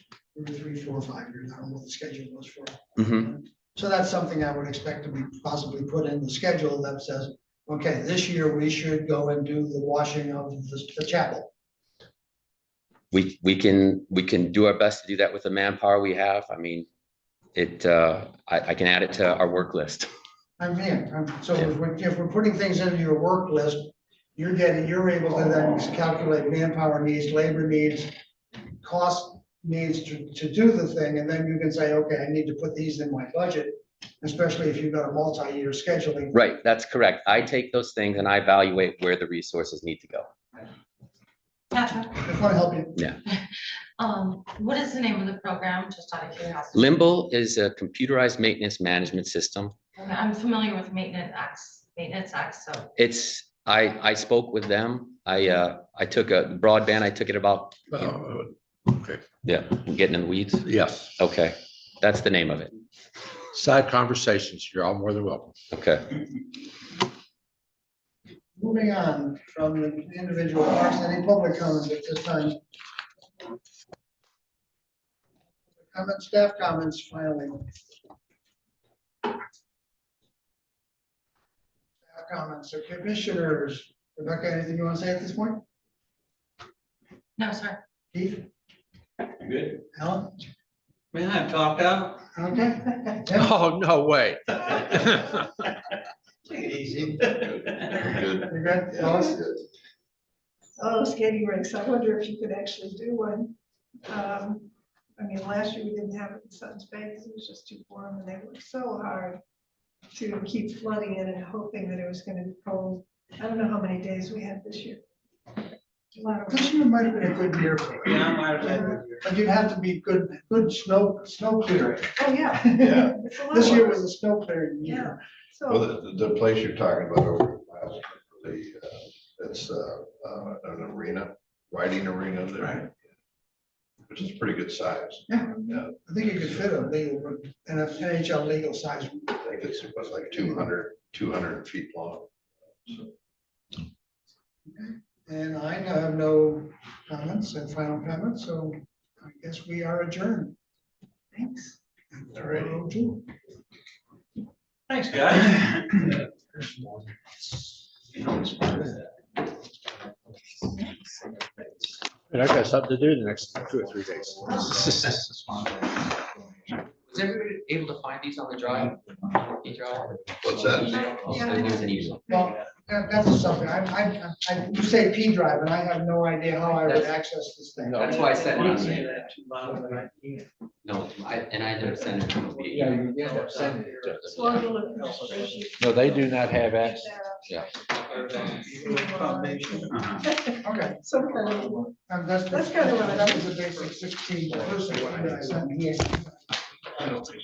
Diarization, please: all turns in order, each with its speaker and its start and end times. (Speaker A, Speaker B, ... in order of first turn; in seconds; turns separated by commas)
Speaker A: 0.3-11.5, Speaker B: 3.0-3.2, Speaker B: 13.1-16.9, Speaker B: 17.5-20.1, Speaker A: 20.6-28.1, Speaker A: 28.8-36.4, Speaker B: 36.3-40.3, Speaker C: 41.7-42.2, Speaker A: 42.2-43.0, Speaker C: 44.0-46.9, Speaker B: 46.7-49.7, Speaker C: 49.9-52.9, Speaker B: 53.0-58.1, Speaker D: 57.9-59.2, Speaker B: 59.4-60.6, Speaker D: 60.6-61.1, Speaker B: 61.2-62.7, Speaker D: 63.5-65.5, Speaker B: 65.7-66.1, Speaker A: 68.6-72.6, Speaker A: 75.8-77.6, Speaker A: 82.1-85.6, Speaker C: 87.4-87.8, Speaker A: 88.1-88.5, Speaker A: 89.9-90.3, Speaker E: 91.1-92.2, Speaker A: 92.3-93.5, Speaker D: 93.3-95.5, Speaker E: 96.7-97.2, Speaker F: 97.1-99.6, Speaker A: 98.5-99.4, Speaker G: 100.8-103.5, Speaker G: 104.0-109.4, Speaker G: 110.1-115.0, Speaker G: 116.1-117.1, Speaker A: 116.5-125.2, Speaker E: 118.0-119.2, Speaker G: 118.6-119.0, Speaker G: 122.2-124.0, Speaker F: 122.8-123.9, Speaker G: 124.8-125.9, Speaker F: 125.7-132.9, Speaker F: 134.1-135.9, Speaker A: 135.3-139.3, Speaker F: 139.4-142.3, Speaker A: 144.7-150.6, Speaker G: 151.3-151.7, Speaker A: 152.1-153.2, Speaker F: 152.3-152.7, Speaker E: 154.9-156.1, Speaker E: 158.3-158.9, Speaker D: 162.3-165.3, Speaker B: 167.1-172.2, Speaker F: 170.4-171.0, Speaker G: 170.8-172.4, Speaker A: 172.3-178.3, Speaker D: 177.8-178.2, Speaker B: 177.9-179.1, Speaker G: 178.1-178.7, Speaker E: 178.6-180.5, Speaker B: 180.8-182.9, Speaker E: 181.9-184.1, Speaker D: 182.7-184.7, Speaker B: 184.2-184.6, Speaker G: 184.2-191.9, Speaker E: 184.8-185.6, Speaker D: 185.7-187.2, Speaker E: 188.1-190.2, Speaker A: 190.6-191.0, Speaker E: 191.3-191.8, Speaker A: 192.1-197.2, Speaker G: 192.5-193.5